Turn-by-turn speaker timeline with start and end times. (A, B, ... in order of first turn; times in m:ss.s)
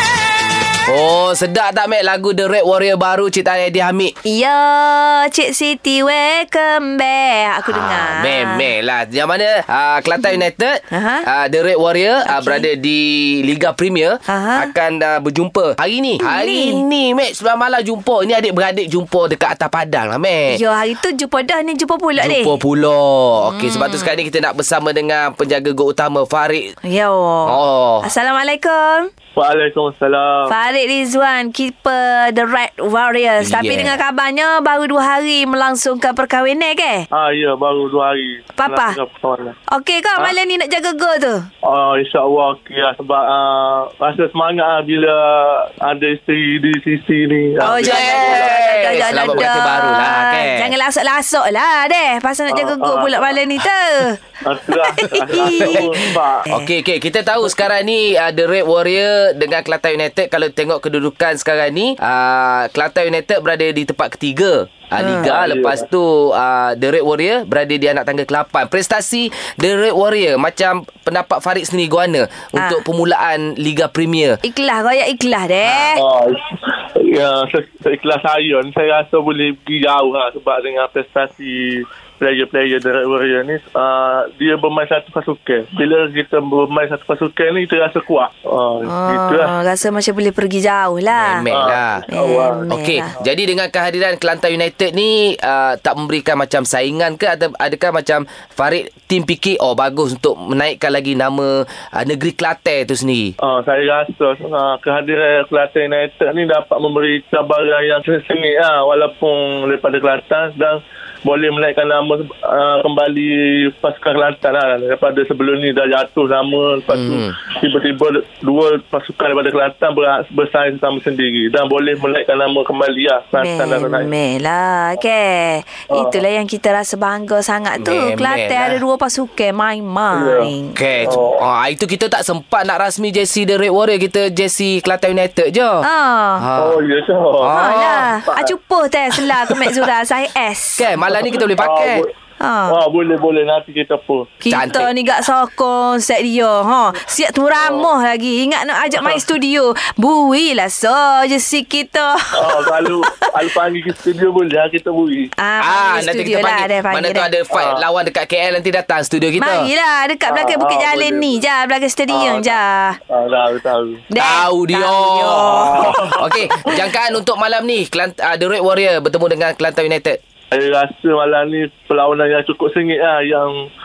0:00.8-0:04.2 A
0:04.2-0:08.6 B
0:07.7-0:20.6 A
0:10.9-0:11.3 B
0:12.3-0:12.7 B
0:14.3-0:14.7 B
0:16.2-0:16.8 B
0:20.5-0:22.6 B
0:22.2-0:26.8 A
0:23.5-0:24.2 B
0:26.8-0:29.1 B
0:27.4-0:28.1 A
0:29.4-0:30.5 C
0:30.5-0:37.0 B
0:33.4-0:34.0 A
0:37.1-0:39.6 C
0:38.6-0:39.0 B
0:39.7-0:41.5 B
0:41.7-0:49.5 C
0:47.6-0:54.2 B
0:47.8-0:50.7 A
0:52.5-0:53.3 C
0:54.4-0:56.5 C
0:54.8-0:56.7 B
0:55.5-0:56.0 A
0:56.5-1:14.4 A
1:05.0-1:05.3 B
1:05.2-1:05.9 C
1:12.6-1:12.8 B
1:14.4-1:16.0 B
1:15.6-1:16.0 A
1:16.0-1:29.5 C
1:28.9-1:31.5 B
1:31.2-1:32.0 A
1:31.5-1:32.7 C
1:32.1-1:33.1 B
1:32.7-1:43.3 A
1:43.4-2:04.1 C
1:56.9-1:57.4 A
2:03.4-2:10.8 B
2:05.9-2:06.2 C
2:07.8-2:08.8 A
2:10.1-2:10.5 C
2:10.8-2:15.9 A
2:11.0-2:11.4 C
2:15.8-2:16.5 B
2:16.4-2:16.8 A
2:16.6-2:17.6 C
2:17.4-2:18.2 A
2:17.5-2:20.9 B
2:18.3-2:18.5 C
2:20.8-2:22.0 A
2:21.2-2:22.1 C
2:22.4-2:22.8 B
2:22.7-2:24.4 C
2:24.4-2:32.7 B
2:24.5-2:24.9 A
2:27.6-2:27.9 C
2:32.4-2:35.3 C
2:35.4-2:37.3 B
2:35.6-2:39.7 A
2:37.5-2:37.8 C
2:39.4-2:43.0 B
2:40.3-2:41.4 C
2:42.1-2:42.6 C
2:43.1-2:44.1 C
2:44.1-2:46.0 B
2:44.2-2:50.2 A
2:45.5-2:46.8 C
2:50.5-2:53.6 C